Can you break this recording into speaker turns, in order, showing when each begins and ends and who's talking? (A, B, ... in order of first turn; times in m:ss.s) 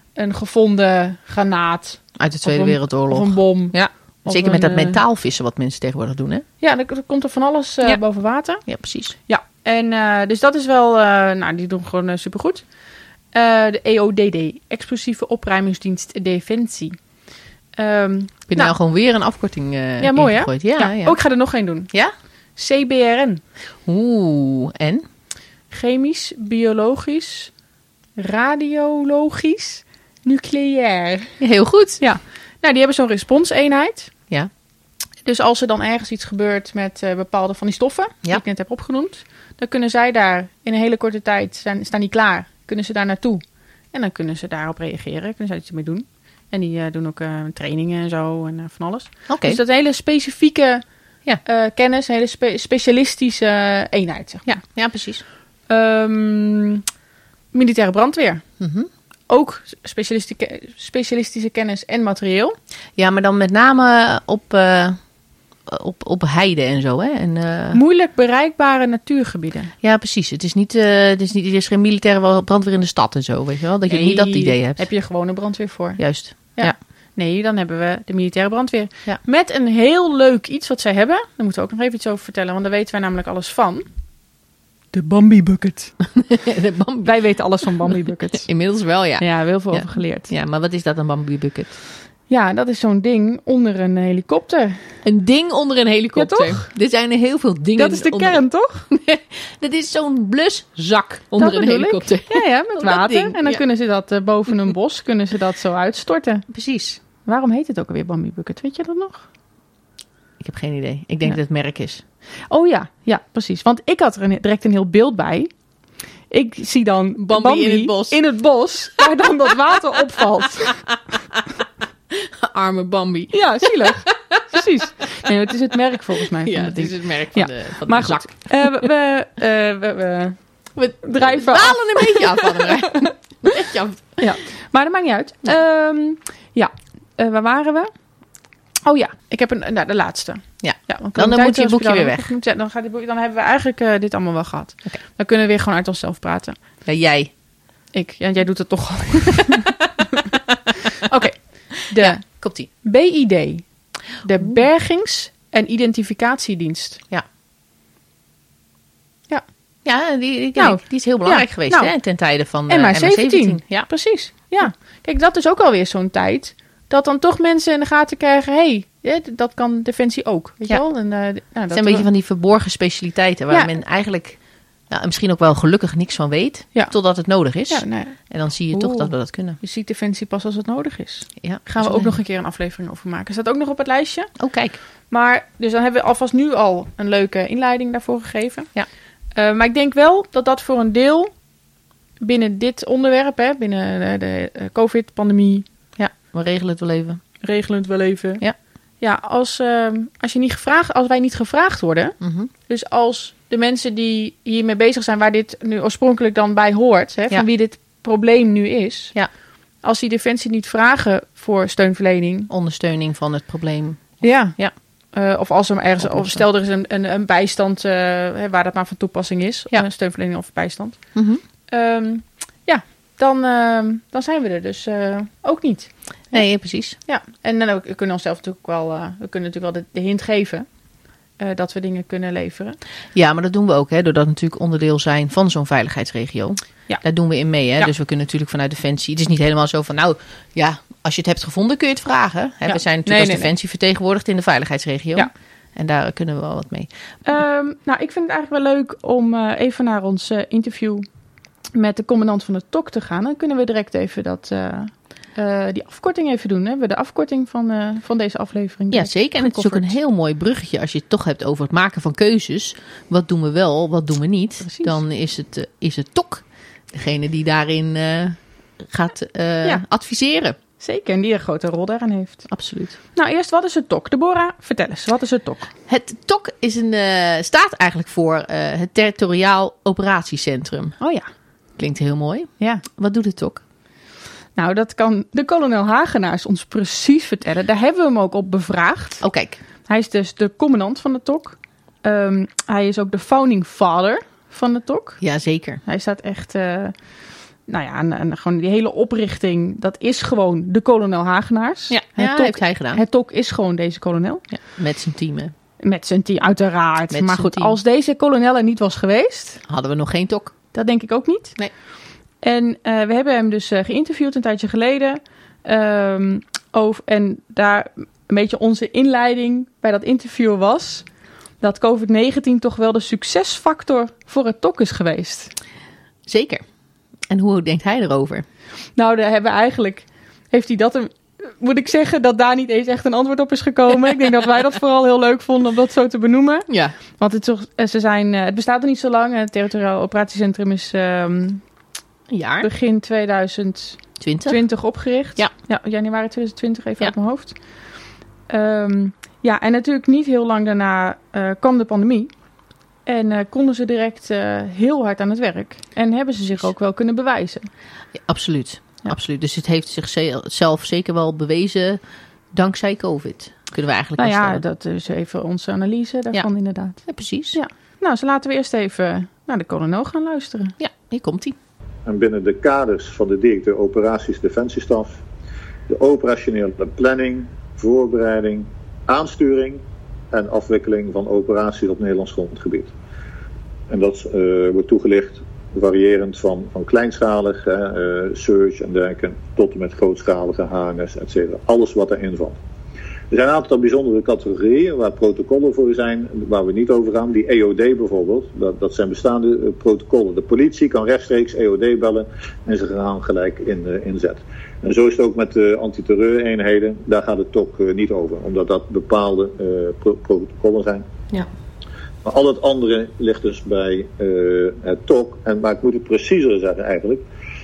0:00.2-0:05.0 A
0:02.2-0:06.4 B
0:06.6-0:08.6 A
0:08.7-0:09.2 B
0:09.3-0:12.7 A
0:13.3-0:17.0 A
0:17.8-0:18.8 A
0:18.5-0:21.2 B
0:20.0-0:21.9 A
0:22.6-0:23.4 A
0:23.9-0:25.0 B
0:25.7-0:27.5 A
0:28.2-0:31.4 A
0:31.4-0:32.0 B
0:32.0-0:34.1 A
0:35.2-0:50.8 A
0:49.3-0:49.6 B
0:51.4-0:54.6 A
0:54.5-0:55.2 B
0:55.7-0:56.8 A
0:57.5-0:58.4 A
0:58.6-0:58.9 B
0:59.3-1:02.6 A
1:03.0-1:05.0 B
1:05.7-1:07.8 B
1:07.7-1:09.7 A
1:09.8-1:14.9 B
1:13.9-1:23.9 A
1:16.0-1:16.8 B
1:24.9-1:25.9 A
1:26.1-1:27.2 B
1:27.0-1:28.5 A
1:28.4-1:31.8 B
1:29.2-1:30.3 A
1:32.3-1:34.8 A
1:35.0-1:43.6 B
1:36.2-1:36.7 A
1:37.8-1:38.9 A
1:41.4-1:46.5 A
1:46.5-1:47.0 B
1:47.2-1:49.2 A
1:50.4-1:52.0 B
1:52.5-1:55.5 A
1:56.3-2:00.8 A
1:57.2-1:58.2 B
2:02.1-2:04.4 B
2:03.3-2:10.4 A
2:06.4-2:08.9 B
2:10.8-2:14.3 B
2:11.0-2:13.5 A
2:14.2-2:17.9 A
2:18.8-2:26.6 A
2:20.6-2:22.3 B
2:26.8-2:27.3 B
2:27.9-2:29.8 A
2:31.0-2:32.2 A
2:32.0-2:32.7 B
2:32.8-2:33.7 A
2:34.2-2:37.0 A
2:39.8-2:43.9 B
2:40.6-2:42.0 A
2:42.7-2:52.1 A
2:51.7-2:59.6 B
2:57.7-3:04.3 A
3:01.4-3:02.1 B
3:04.4-3:04.8 B
3:05.1-3:08.7 A
3:09.4-3:11.3 A
3:12.2-3:15.6 A
3:16.0-3:17.2 B
3:17.4-3:18.4 A
3:19.0-3:29.2 A
3:22.2-3:22.5 B
3:29.8-3:32.5 A
3:32.5-3:34.7 B
3:34.2-3:34.6 A
3:35.1-3:41.0 A
3:36.0-3:36.4 B
3:41.2-3:41.4 B
3:41.7-3:50.7 A
3:46.3-3:47.0 B
3:51.4-3:52.8 A
3:53.2-4:06.9 B
4:02.7-4:03.5 A
4:07.2-4:11.1 A
4:11.8-4:19.9 A
4:18.9-4:30.6 B
4:24.6-4:25.0 A
4:30.8-4:32.5 A
4:32.5-4:33.0 B
4:33.2-4:35.7 A
4:35.9-4:41.0 B
4:41.0-4:41.3 A
4:41.8-4:43.6 B
4:44.6-4:49.2 A
4:49.2-4:49.6 B
4:49.9-4:55.2 A
4:55.2-4:55.8 B
4:55.8-4:57.0 A
4:57.7-5:04.4 A
5:01.9-5:03.0 B
5:04.5-5:05.5 B
5:05.8-5:09.6 A
5:07.1-5:07.8 B
5:09.7-5:10.6 B
5:10.7-5:11.6 A
5:12.4-5:21.1 A
5:21.6-5:25.5 A
5:26.3-5:26.6 B
5:27.3-5:28.4 B
5:29.0-5:41.6 A
5:36.7-5:37.0 B
5:42.3-5:42.7 B
5:42.6-5:47.6 A
5:44.2-5:44.6 B
5:48.5-5:52.3 A
5:53.1-5:57.7 A
5:58.1-6:02.0 B
6:02.5-6:04.6 B
6:04.2-6:10.8 A
6:07.0-6:07.6 B
6:10.8-6:11.6 B
6:12.0-6:15.2 C
6:15.9-6:19.8 C
6:20.3-6:22.9 C
6:23.9-6:32.6 C
6:33.3-6:51.1 C
6:52.2-6:57.2 C